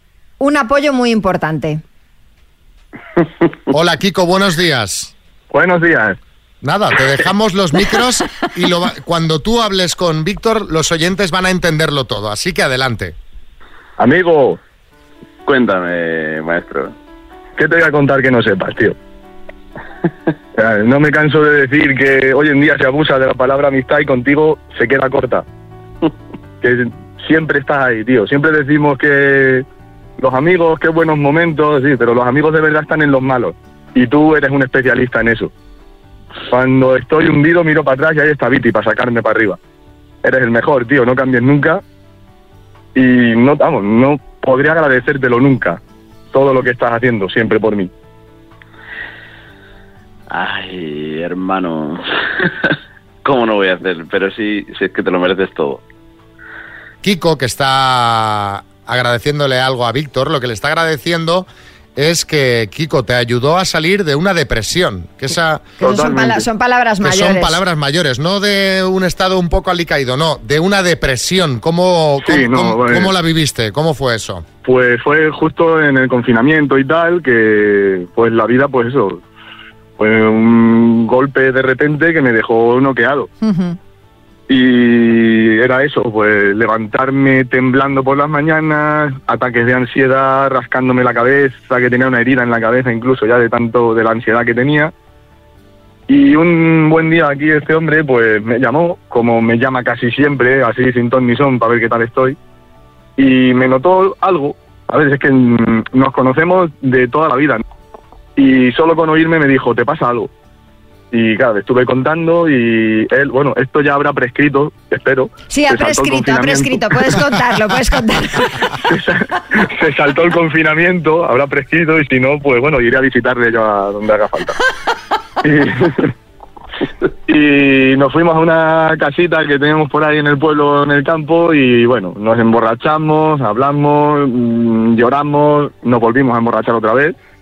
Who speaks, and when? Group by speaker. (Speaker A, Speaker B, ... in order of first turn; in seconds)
Speaker A: 0.4-1.8, 65.8-67.6, 83.4-83.8, 115.5-118.6
Speaker B: 3.7-5.1, 6.6-13.2, 57.0-65.7, 67.0-74.4
Speaker C: 5.5-6.2, 14.0-14.6, 17.6-18.9, 20.6-25.4, 26.6-29.6, 30.2-35.5, 36.5-39.6, 40.2-41.8, 42.9-45.8, 46.3-47.9, 65.8-66.5, 72.2-73.1, 74.6-79.2, 80.0-83.3, 84.5-94.9, 96.1-102.3, 103.2-107.6, 108.3-110.3, 111.1-117.2, 118.7-124.6, 125.4-126.1, 127.3-137.2
Speaker D: 15.4-16.9, 50.3-52.5, 53.2-55.8